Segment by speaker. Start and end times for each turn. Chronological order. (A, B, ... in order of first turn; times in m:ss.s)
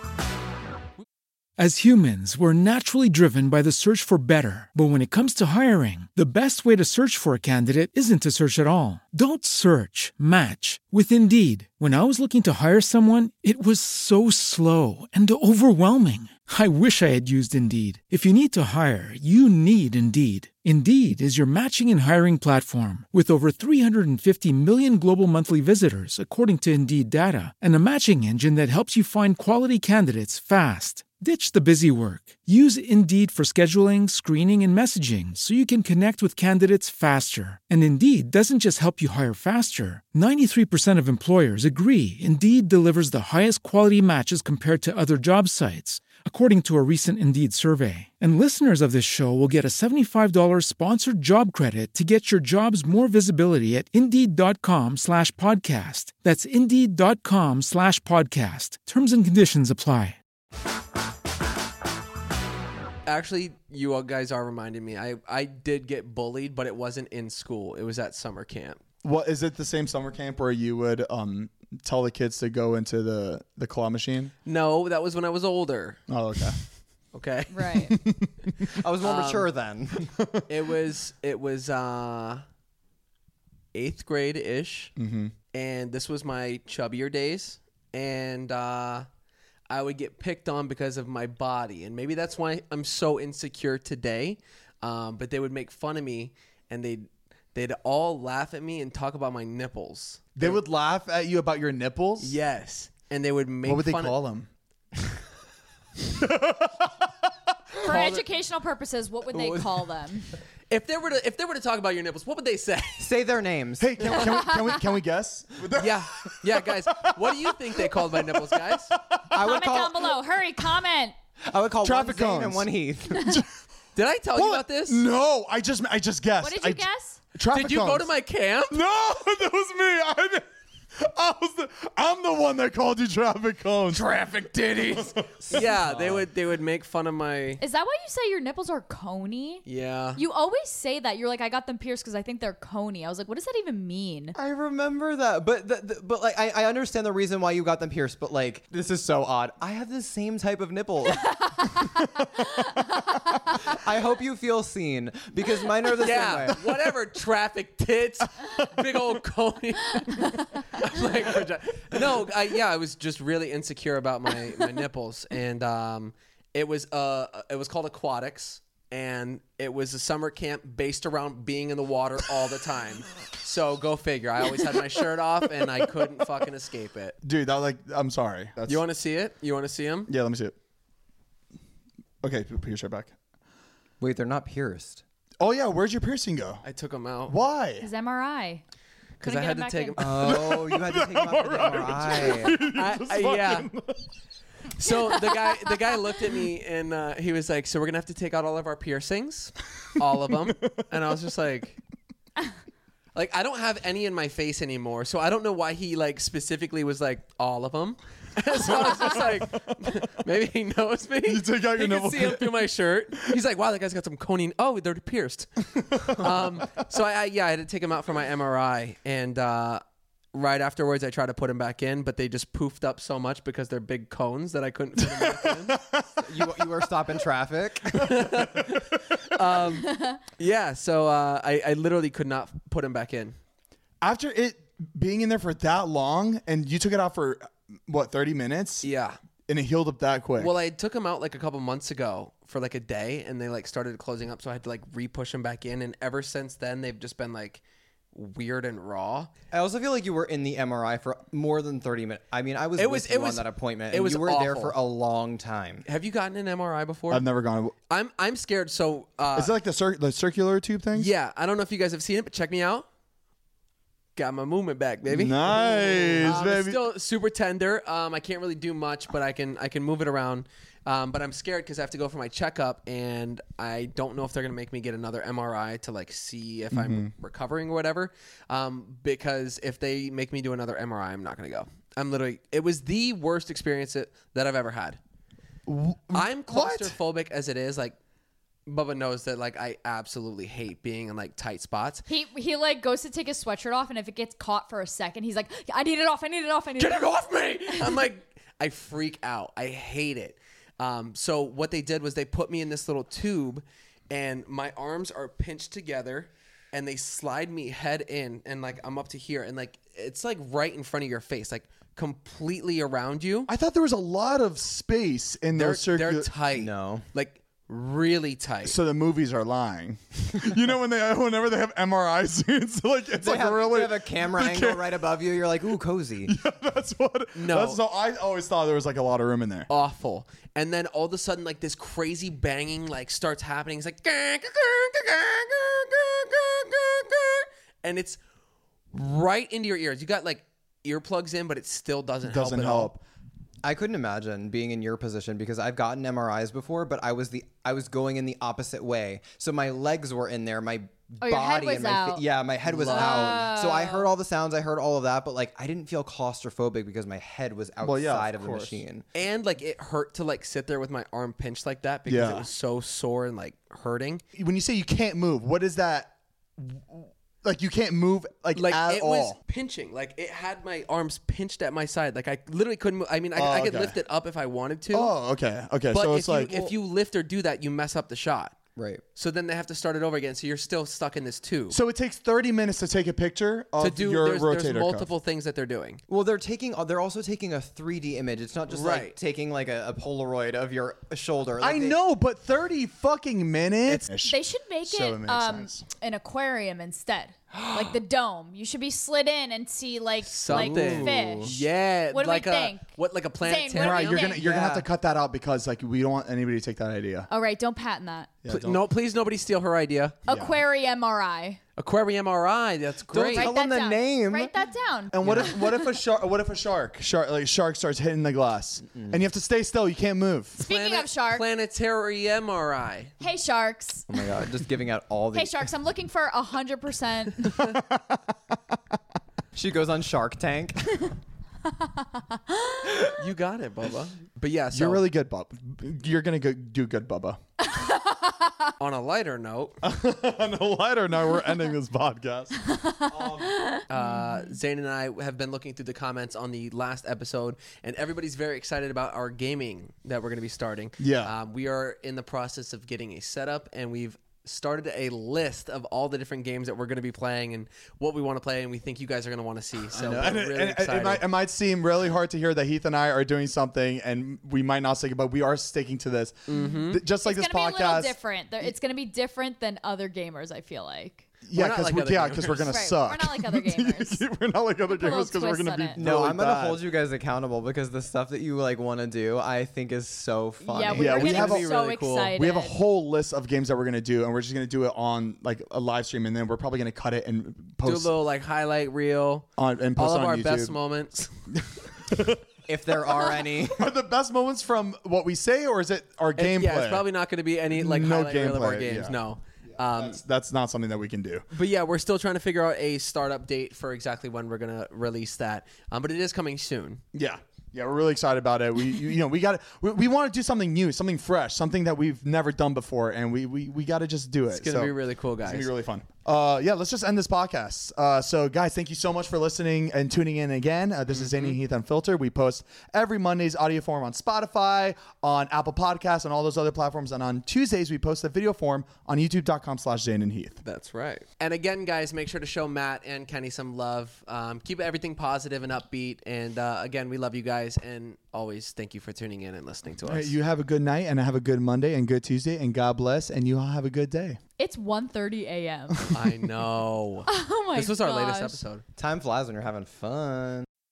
0:01.6-1:00.2 A
1:03.0-1:08.8 B
1:09.0-1:14.3 C
1:14.4-1:16.5 B
1:16.1-1:16.6 C
1:17.1-1:18.0 B
1:17.5-1:18.0 D
1:17.9-1:18.6 C
1:18.7-1:20.1 E
1:19.0-1:19.5 B
1:20.1-1:20.4 C
1:20.5-1:22.4 B
1:23.7-1:24.9 B
1:25.0-1:25.3 C
1:25.5-1:29.0 B
1:29.7-1:40.6 B
1:40.4-1:42.4 C
1:42.2-1:44.2 B
1:43.6-1:44.5 C
1:46.0-1:48.1 C
1:47.8-1:50.3 D
1:49.3-1:49.7 E
1:50.7-1:53.1 B
1:53.0-1:54.4 E
1:53.8-1:59.6 C
1:54.4-1:54.7 D
1:55.7-1:59.0 B
1:59.3-2:00.1 E
1:59.4-2:01.2 D
2:01.4-2:03.4 E
2:01.8-2:03.5 C
2:04.0-2:05.0 B
2:04.3-2:08.1 C
2:06.4-2:07.2 D
2:07.5-2:08.8 B
2:08.7-2:14.1 C
2:13.9-2:17.6 B
2:14.9-2:15.7 C
2:15.4-2:16.2 E
2:17.6-2:19.6 D
2:19.6-2:20.2 B
2:20.2-2:24.4 D
2:24.4-2:31.7 E
2:31.3-2:31.8 D
2:32.0-2:32.4 C
2:33.6-2:36.6 E
2:36.0-2:57.2 B
2:38.4-2:38.8 C
2:57.2-2:58.8 C
2:58.6-3:00.1 B
3:00.1-3:00.5 C
3:02.2-3:03.1 C
3:04.0-3:05.0 E
3:05.4-3:06.6 C
3:06.6-3:07.4 B
3:07.3-3:07.9 C
3:07.8-3:08.6 D
3:09.2-3:10.4 B
3:09.2-3:10.3 D
3:10.0-3:12.6 E
3:10.1-3:14.1 C
3:12.1-3:13.7 B
3:14.8-3:21.8 B
3:15.1-3:16.0 D
3:20.6-3:20.8 C
3:23.1-3:39.8 B
3:28.5-3:29.9 C
3:31.2-3:32.7 C
3:35.7-3:36.8 C
3:40.3-3:45.8 B
3:45.2-3:46.6 C
3:46.2-3:48.2 E
3:48.0-3:49.6 C
3:48.0-3:53.3 B
3:49.9-3:50.2 D
3:54.0-3:58.9 C
3:58.8-3:59.2 B
3:59.5-4:00.5 C
4:00.4-4:09.3 B
4:09.5-4:15.8 E
4:12.8-4:14.7 B
4:15.8-4:17.2 B
4:17.1-4:17.7 C
4:17.9-4:19.5 B
4:19.3-4:21.1 C
4:20.9-4:22.8 B
4:24.2-4:45.0 B
4:25.0-4:26.8 C
4:36.7-4:37.1 C
4:45.7-4:47.0 C
4:46.1-4:48.0 B
4:48.6-4:52.0 B
4:52.1-4:57.1 D
4:56.8-5:13.5 B
4:57.7-4:58.0 D
5:13.5-5:16.3 C
5:15.5-5:18.8 B
5:16.5-5:17.0 E
5:18.6-5:25.0 C
5:23.2-5:26.3 E
5:26.2-5:29.7 C
5:27.4-5:27.8 B
5:29.7-5:38.2 B
5:38.9-5:42.9 B
5:42.2-5:43.0 C
5:43.6-5:59.0 E
5:51.2-5:52.2 D
5:52.6-5:53.4 B
5:52.8-5:54.1 D
5:57.8-5:58.8 C
5:59.1-6:04.2 B
6:02.0-6:02.5 C
6:04.3-6:09.4 C
6:08.5-6:15.1 B
6:13.3-6:14.0 C
6:14.9-6:16.7 C
6:15.9-6:18.6 B
6:18.8-6:19.0 E
6:19.2-6:21.8 B
6:21.7-6:25.1 C
6:23.8-6:26.0 B
6:26.1-6:32.0 E
6:28.7-6:29.2 B
6:31.6-6:35.8 C
6:34.1-6:41.6 D
6:37.5-6:38.0 E
6:40.2-6:44.3 B
6:40.5-6:41.5 E
6:42.1-6:42.9 D
6:43.4-6:44.5 D
6:43.7-6:47.3 C
6:44.4-6:44.9 E
6:47.3-6:48.3 D
6:48.4-6:48.8 C
6:48.5-6:50.2 B
6:50.3-6:51.6 D
6:50.3-6:50.6 C
6:51.8-6:53.5 B
6:53.1-6:54.6 E
6:53.3-6:55.8 D
6:55.1-7:00.6 C
7:00.6-7:01.4 D
7:00.6-7:03.1 B
7:03.2-7:04.2 D
7:04.1-7:05.7 E
7:05.3-7:07.7 D
7:07.4-7:08.2 C
7:09.5-7:11.1 E
7:11.8-7:12.9 D
7:13.1-7:15.0 B
7:14.7-7:17.4 C
7:17.8-7:18.7 D
7:18.8-7:19.8 B
7:19.8-7:23.7 C
7:22.8-7:24.5 D
7:23.9-7:41.2 B
7:31.0-7:31.3 C
7:39.9-7:48.7 C
7:46.5-7:47.0 B
7:47.1-7:51.2 D
7:51.4-7:56.8 C
7:51.5-7:52.8 B
7:52.6-7:54.2 D
7:54.8-7:56.0 D
7:56.0-8:01.2 E
8:00.6-8:02.7 D
8:00.9-8:01.7 C
8:01.0-8:02.3 B
8:02.3-8:08.1 C
8:07.8-8:11.3 B
8:09.6-8:10.8 C
8:11.6-8:12.4 C
8:12.7-8:13.9 E
8:13.0-8:17.0 C
8:16.4-8:20.2 B
8:17.7-8:19.2 C
8:19.8-8:21.4 C
8:21.5-8:27.0 B
8:27.1-8:50.6 C
8:34.5-8:35.7 B
8:41.1-8:41.6 B
8:50.6-9:00.3 B
9:00.0-9:04.4 C
9:04.6-9:06.1 D
9:06.1-9:08.8 B
9:07.3-9:08.6 D
9:09.0-9:10.6 E